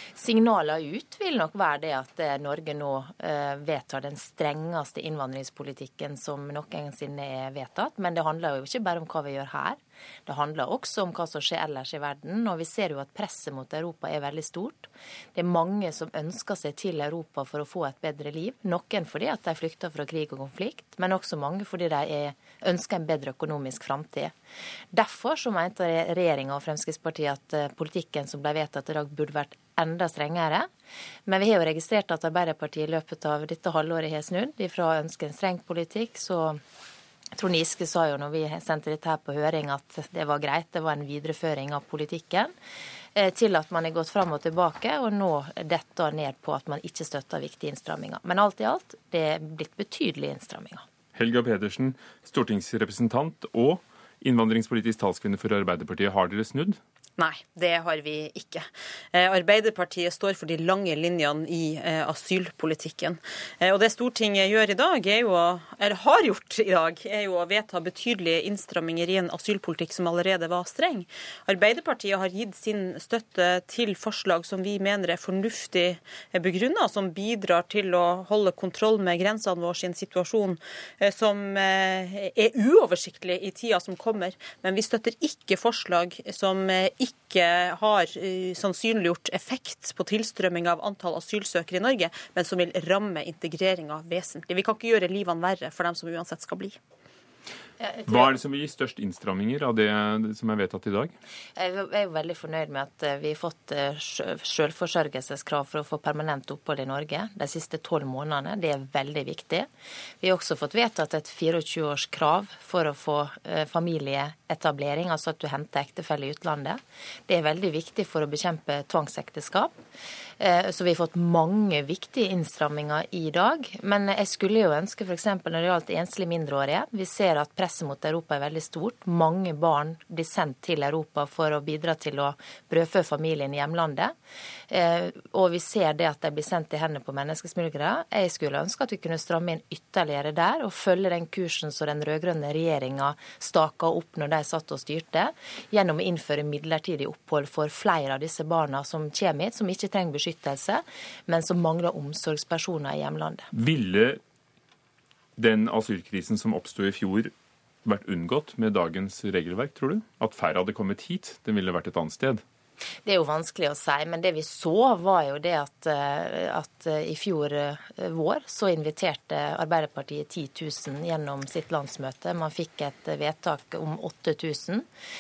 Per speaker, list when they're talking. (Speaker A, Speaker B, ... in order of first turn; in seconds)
Speaker A: 0.2-24.3, 24.9-30.7, 31.3-36.6, 37.4-42.5, 43.2-50.9, 97.8-98.3, 101.6-109.7, 110.2-119.8, 120.4-134.2, 134.7-153.5, 163.1-174.9
Speaker B: 51.1-56.8, 98.1-101.2, 153.5-154.2, 155.4-157.3, 157.8-162.4
Speaker C: 57.2-96.8